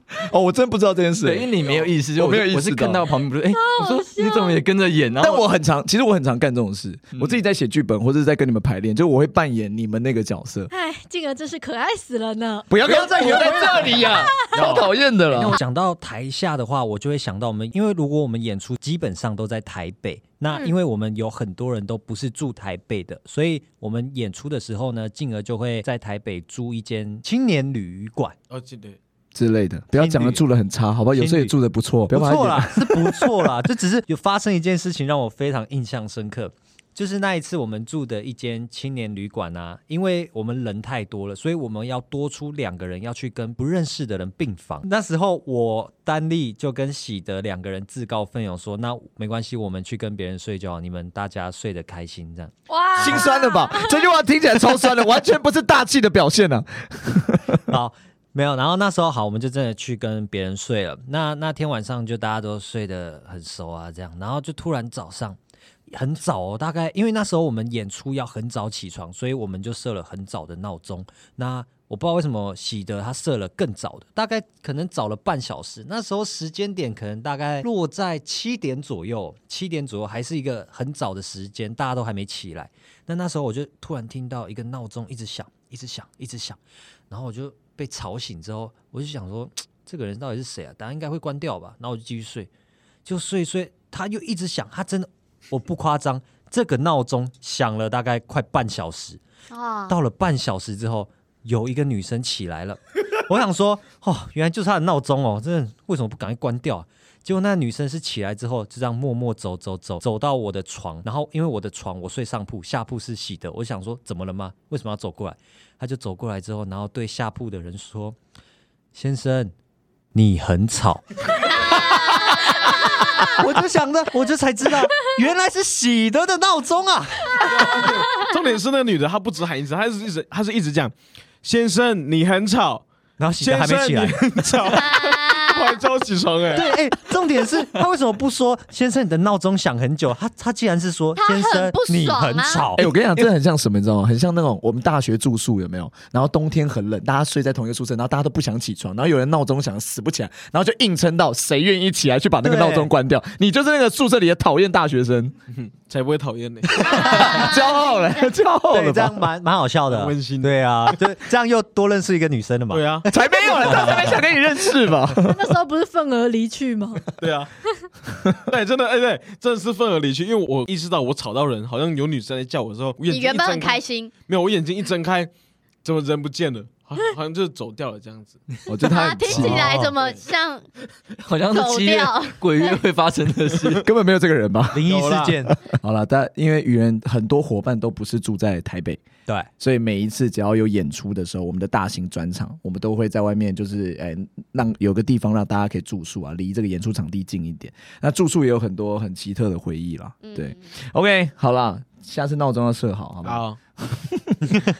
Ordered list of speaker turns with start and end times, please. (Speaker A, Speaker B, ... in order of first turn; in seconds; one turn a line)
Speaker A: 0.2-3.0
Speaker B: 1.2-5.4
Speaker C: 3.5-4.6
Speaker A: 5.2-10.7
Speaker C: 10.7-14.6
Speaker A: 12.7-15.6
Speaker D: 12.8-14.1
Speaker E: 14.6-14.9
Speaker B: 15.3-15.6
Speaker D: 15.4-28.3
Speaker E: 28.5-29.0
Speaker A: 29.3-33.4
Speaker D: 30.0-30.4
Speaker D: 31.1-31.5
Speaker D: 32.1-53.2
Speaker C: 52.7-54.0
Speaker A: 53.0-57.6
Speaker D: 57.7-65.4
Speaker D: 65.9-86.6
Speaker D: 87.1-92.5
Speaker D: 93.0-99.2
Speaker F: 99.5-100.0
Speaker D: 99.9-118.2
Speaker D: 118.9-119.5
Speaker D: 120.1-128.0
Speaker F: 121.5-123.4
Speaker E: 127.5-132.8
Speaker D: 133.2-134.3
Speaker E: 133.4-136.8
Speaker F: 134.8-135.8
Speaker D: 136.5-142.9
Speaker F: 141.2-142.7
Speaker A: 142.8-155.3
Speaker D: 152.4-152.9
Speaker E: 155.5-157.4
Speaker A: 156.8-159.2
Speaker F: 156.8-158.3
Speaker D: 158.7-163.1
Speaker E: 159.9-161.0
Speaker E: 162.7-163.1
Speaker A: 163.1-165.4
Speaker C: 165.3-167.1
Speaker E: 167.2-167.5
Speaker E: 168.5-175.3
Speaker F: 173.1-174.1
Speaker E: 175.8-178.4
Speaker A: 178.7-179.6
Speaker F: 178.8-180.7
Speaker D: 179.3-179.9
Speaker B: 181.2-183.9
Speaker F: 181.5-182.7
Speaker A: 183.8-184.8
Speaker D: 184.7-185.6
Speaker E: 184.8-185.4
Speaker A: 185.6-189.0
Speaker A: 189.6-204.5
Speaker F: 200.2-200.7
Speaker E: 203.2-203.6